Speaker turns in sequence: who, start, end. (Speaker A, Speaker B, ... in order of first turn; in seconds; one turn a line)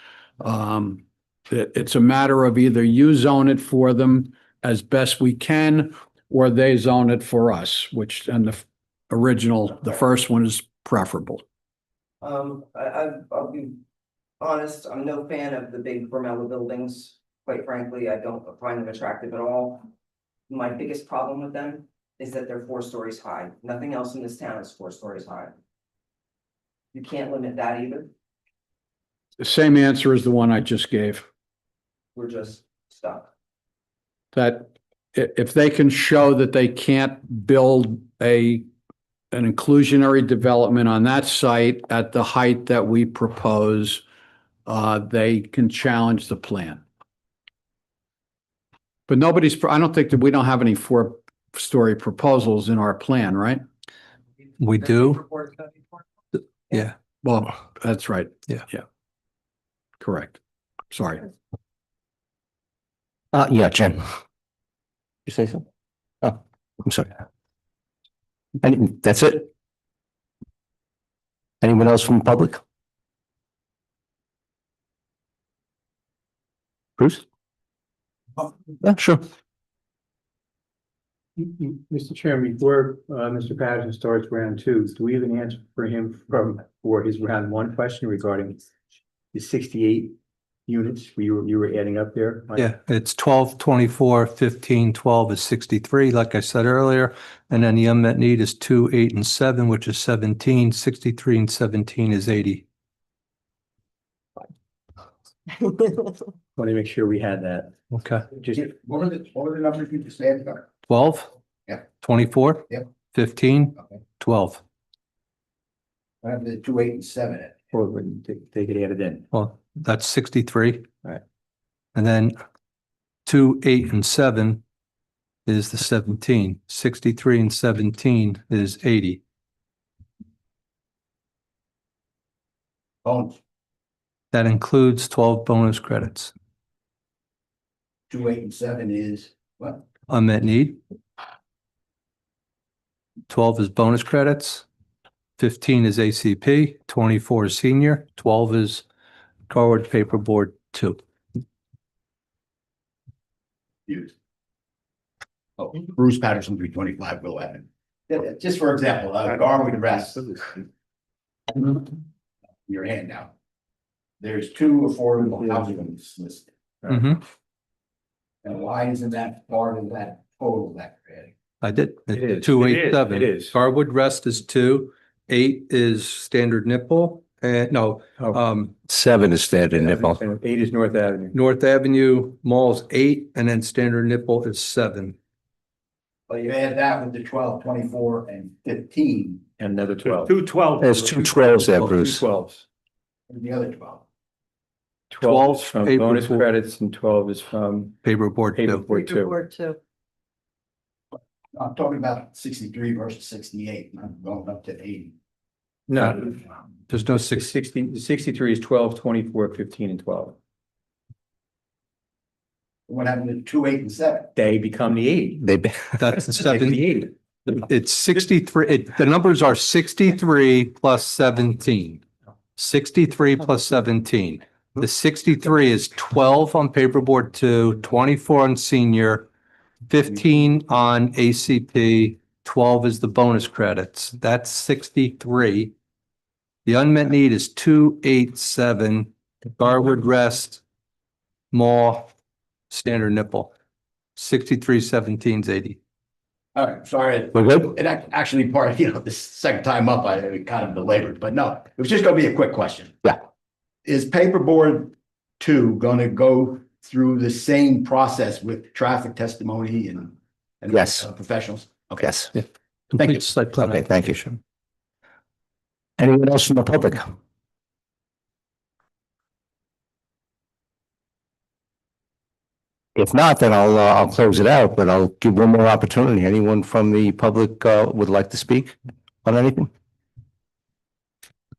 Speaker A: 0.4-11.4
Speaker B: 12.2-13.8
Speaker B: 14.4-19.9
Speaker B: 20.5-25.5
Speaker B: 26.9-28.1
Speaker A: 29.4-31.3
Speaker B: 32.1-33.3
Speaker A: 34.3-38.6
Speaker A: 39.3-44.0
Speaker A: 44.6-46.8
Speaker A: 49.1-53.6
Speaker C: 54.6-55.2
Speaker A: 57.2-58.8
Speaker A: 60.0-60.4
Speaker A: 60.9-61.2
Speaker D: 63.3-64.1
Speaker D: 65.2-65.6
Speaker D: 66.2-67.1
Speaker D: 68.6-69.5
Speaker D: 71.6-72.6
Speaker D: 77.0-77.2
Speaker D: 78.8-79.2
Speaker E: 81.4-88.6
Speaker E: 89.3-90.1
Speaker E: 90.7-92.6
Speaker C: 92.6-102.6
Speaker E: 106.5-107.7
Speaker C: 107.9-108.2
Speaker F: 108.5-110.7
Speaker C: 110.9-111.3
Speaker C: 112.0-114.6
Speaker F: 116.2-117.6
Speaker E: 117.7-119.2
Speaker C: 119.3-120.8
Speaker C: 121.9-122.3
Speaker C: 123.2-124.6
Speaker C: 125.5-129.2
Speaker F: 133.0-133.4
Speaker C: 134.3-136.3
Speaker F: 138.1-139.8
Speaker C: 140.1-140.8
Speaker C: 143.3-144.6
Speaker C: 145.4-148.8
Speaker C: 149.5-151.0
Speaker F: 153.9-154.1
Speaker F: 155.6-160.6
Speaker F: 161.5-161.9
Speaker F: 162.7-163.3
Speaker F: 164.2-166.9
Speaker C: 166.9-167.2
Speaker F: 168.4-171.3
Speaker C: 171.6-178.7
Speaker E: 172.1-173.5
Speaker D: 178.9-180.2
Speaker E: 179.8-181.3
Speaker C: 181.3-185.2
Speaker F: 186.3-189.4
Speaker E: 189.6-190.7
Speaker D: 190.8-192.2
Speaker E: 191.5-192.6
Speaker F: 193.3-194.0
Speaker E: 195.1-198.0
Speaker C: 195.2-196.4
Speaker C: 198.0-198.9
Speaker E: 198.5-199.4
Speaker F: 201.5-205.1
Speaker E: 205.9-206.3
Speaker C: 206.9-207.5
Speaker E: 207.2-210.3
Speaker F: 212.9-214.3
Speaker E: 214.3-215.4
Speaker D: 215.4-215.8
Speaker C: 215.9-222.0
Speaker E: 216.5-217.1
Speaker C: 222.6-229.3
Speaker C: 229.9-235.7
Speaker C: 236.6-240.6
Speaker C: 241.5-242.1
Speaker C: 242.7-243.5
Speaker C: 244.2-245.8
Speaker F: 246.5-253.1
Speaker D: 247.3-247.6
Speaker F: 253.8-262.1
Speaker D: 260.7-261.0
Speaker D: 262.0-262.3
Speaker C: 262.4-264.4
Speaker D: 263.0-264.2
Speaker D: 266.0-267.1
Speaker D: 272.9-279.7